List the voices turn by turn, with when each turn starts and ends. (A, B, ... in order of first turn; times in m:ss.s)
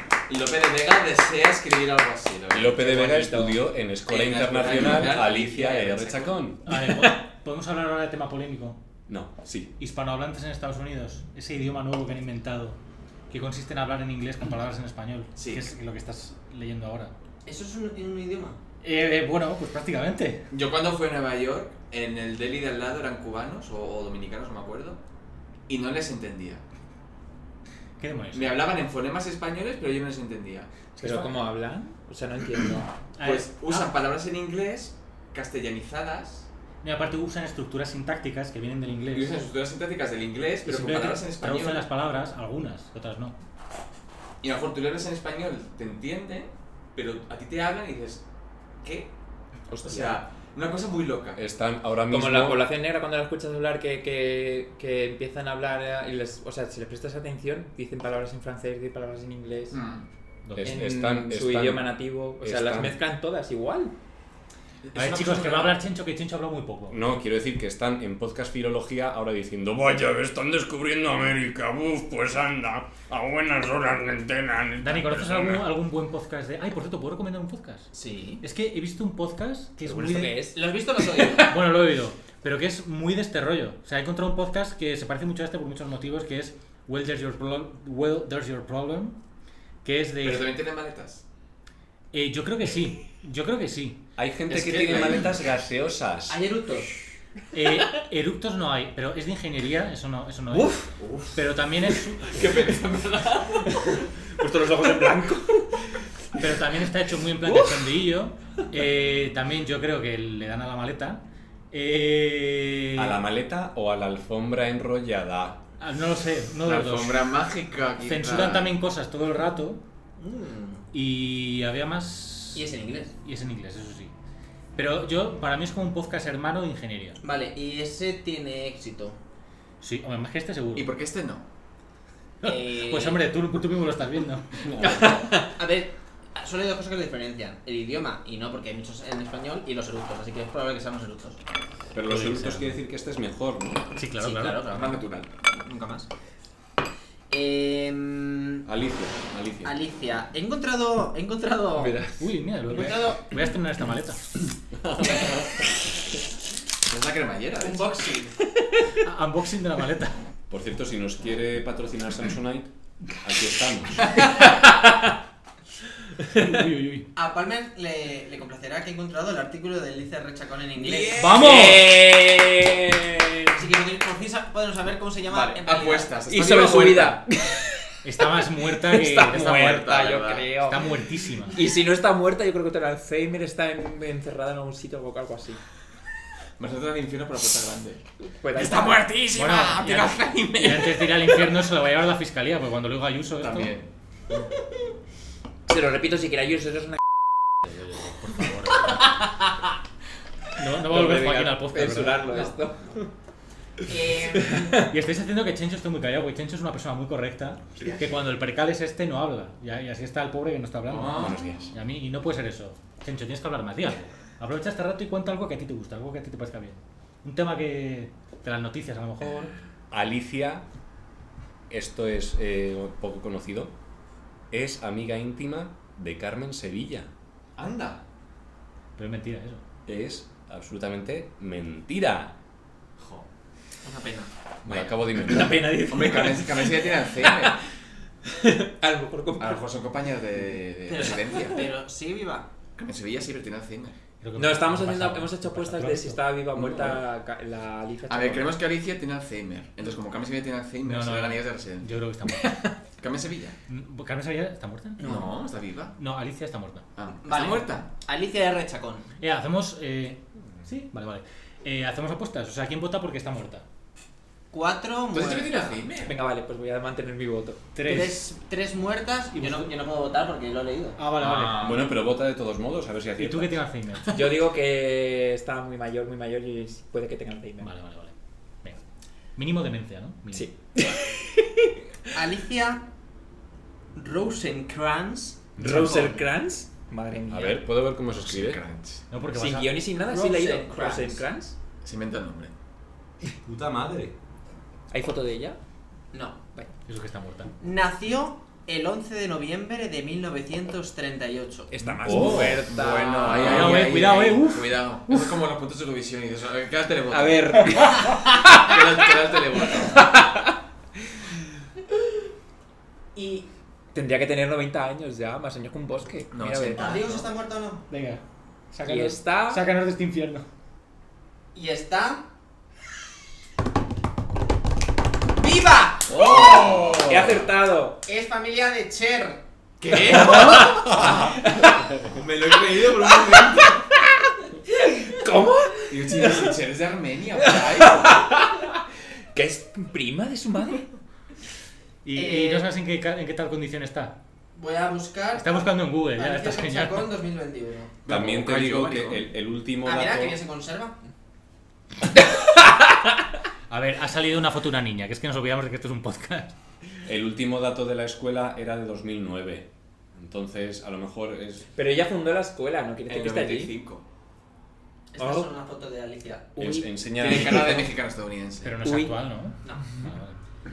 0:00.3-0:03.0 A
0:02.5-0:06.6 B
0:02.8-0:03.6 C
0:04.1-0:06.4 A
0:06.6-0:08.8 D
0:06.7-0:07.2 C
0:09.1-0:09.7 B
0:09.8-0:12.8 D
0:13.3-0:17.1 D
0:15.4-0:15.7 A
0:17.4-0:18.6 E
0:18.8-0:20.5 D
0:20.5-0:25.0 A
0:25.7-0:26.6 A
0:28.0-0:28.6 D
0:28.3-0:30.7 A
0:31.0-0:31.3 D
0:31.0-0:32.9 C
0:33.1-0:33.9 D
0:33.2-0:36.5 A
0:36.8-0:39.4 D
0:39.1-0:41.9 A
0:40.7-0:43.4 D
0:44.4-0:48.2 A
0:48.8-0:49.1 A
0:49.7-0:50.2 C
0:49.8-0:51.4 A
0:51.4-0:52.7 B
0:52.1-0:59.8 C
0:59.7-1:00.1 A
1:00.4-1:01.0 D
1:00.6-1:03.0 B
1:00.6-1:03.9 C
1:04.8-1:05.8 A
1:05.0-1:07.0 D
1:06.9-1:15.7 B
1:14.8-1:17.9 D
1:17.9-1:18.4 E
1:18.4-1:20.4 D
1:19.8-1:21.3 C
1:20.6-1:21.5 E
1:21.4-1:29.2 D
1:29.8-1:30.5 D
1:30.2-1:31.2 A
1:32.1-1:34.0 D
1:34.2-1:36.4 B
1:34.5-1:35.4 A
1:34.8-1:35.2 E
1:36.3-1:36.9 E
1:37.5-1:40.8 D
1:40.5-1:41.0 C
1:41.4-1:42.4 D
1:42.3-1:43.8 A
1:43.6-1:46.4 C
1:46.3-1:53.2 D
1:47.4-1:47.8 C
1:53.0-1:55.6 B
1:55.8-1:57.3 D
1:56.6-1:58.7 A
1:58.0-1:59.8 D
2:00.2-2:00.8 E
2:00.9-2:02.7 D
2:02.6-2:03.1 E
2:03.2-2:04.1 D
2:04.8-2:07.2 D
2:07.2-2:09.2 E
2:09.8-2:10.9 D
2:10.8-2:11.4 A
2:12.4-2:14.5 D
2:12.4-2:13.2 E
2:14.6-2:15.2 B
2:14.8-2:15.5 C
2:15.0-2:21.4 E
2:21.9-2:23.8 B
2:22.0-2:22.8 D
2:24.0-2:24.7 D
2:24.2-2:26.1 E
2:24.7-2:25.3 A
2:27.3-2:28.6 E
2:28.6-2:29.7 B
2:29.6-2:32.0 E
2:32.2-2:34.2 D
2:32.7-2:33.4 E
2:34.8-2:35.6 B
2:36.9-2:37.9 A
2:37.6-2:38.4 E
2:38.7-2:39.0 C
2:39.0-2:40.2 D
2:40.5-2:44.2 B
2:44.8-2:45.1 C
2:46.3-2:47.1 D
2:47.2-2:51.4 E
2:50.8-2:51.8 A
2:51.2-2:52.0 D
2:51.2-2:53.6 C
2:53.5-2:56.2 E
2:55.3-2:57.2 A
2:56.3-3:00.8 C
2:58.0-2:59.8 D
2:59.2-3:00.6 A
3:00.7-3:01.6 D
3:01.5-3:05.6 C
3:06.6-3:11.4 A
3:08.2-3:09.2 C
3:09.3-3:13.7 D
3:13.4-3:13.9 A
3:15.7-3:17.0 C
3:17.6-3:19.0 D
3:20.6-3:22.5 D
3:20.8-3:23.1 C
3:23.9-3:24.8 E
3:24.6-3:24.8 C
3:24.7-3:39.5 D
3:30.9-3:31.5 A
3:31.2-3:31.7 B
3:39.9-3:40.6 B
3:41.7-3:43.7 B
3:44.5-3:47.1 B
3:47.6-3:48.0 A
3:49.0-3:49.6 D
3:49.9-3:52.4 B
3:53.0-3:53.2 A
3:53.8-3:54.3 E
3:54.6-3:55.0 A
3:54.6-3:56.0 B
3:55.3-3:57.6 C
3:55.8-3:57.6 A
3:58.2-3:59.6 C
3:59.4-4:01.7 A
4:00.9-4:02.5 E
4:02.8-4:04.0 A
4:04.2-4:06.2 D
4:04.4-4:08.5 C
4:06.6-4:07.0 A
4:08.1-4:11.9 A
4:10.8-4:12.5 D
4:13.0-4:13.6 A
4:13.7-4:15.0 D
4:15.0-4:15.3 E
4:15.0-4:16.0 A
4:16.0-4:16.8 D
4:17.0-4:17.9 A
4:17.2-4:19.1 E
4:19.2-4:23.6 D
4:24.5-4:25.8 E
4:25.1-4:26.2 A
4:26.0-4:27.7 C
4:27.8-4:28.2 D
4:27.8-4:31.0 E
4:29.3-4:29.7 D
4:31.0-4:31.7 D
4:31.3-4:31.8 A
4:31.5-4:33.6 B
4:33.2-4:34.3 D
4:34.1-4:37.7 C
4:37.6-4:38.8 D
4:39.4-4:40.5 D
4:40.3-4:42.2 C
4:42.2-4:42.8 E
4:44.0-4:46.3 E
4:45.6-4:47.6 C
4:45.6-4:46.1 D
4:47.3-4:48.6 B
4:48.1-4:49.0 A
4:49.1-4:49.8 D
4:49.3-4:51.5 C
4:50.0-4:51.2 E
4:51.8-4:52.5 A
4:53.4-4:54.1 B
4:54.9-4:55.6 C
4:56.1-4:56.4 E
4:56.9-4:57.5 D
4:57.6-5:01.7 E
5:01.7-5:03.9 C
5:02.0-5:03.8 B
5:02.7-5:10.1 A
5:03.4-5:04.8 D
5:07.1-5:08.8 C
5:09.9-5:10.6 C
5:13.2-5:13.5 E
5:13.9-5:17.0 C
5:16.3-5:17.3 A
5:16.7-5:17.8 E
5:17.9-5:18.2 D
5:18.7-5:20.5 D
5:18.9-5:19.6 C
5:21.5-5:22.2 E
5:25.4-5:26.3 E
5:26.1-5:27.4 A
5:26.1-5:27.2 B
5:27.0-5:28.0 C
5:28.1-5:29.4 E
5:29.8-5:31.1 A
5:30.1-5:32.0 C
5:30.6-5:31.2 B
5:32.1-5:33.8 A
5:33.2-5:36.6 C
5:35.9-5:38.3 A
5:37.4-5:38.7 C
5:39.4-5:40.9 C
5:42.0-5:44.2 D
5:42.2-5:42.7 E
5:44.6-5:47.9 E
5:45.4-5:47.1 D
5:48.0-5:49.3 A
5:48.1-5:50.4 B
5:49.8-5:51.0 E
5:53.7-5:56.6 D
5:57.0-6:01.6 B
6:01.8-6:03.8 C
6:03.1-6:04.0 A
6:05.1-6:06.6 E
6:05.2-6:05.5 C
6:06.6-6:07.9 C
6:06.6-6:07.9 B
6:07.2-6:08.8 A
6:08.6-6:10.4 D
6:08.8-6:09.2 C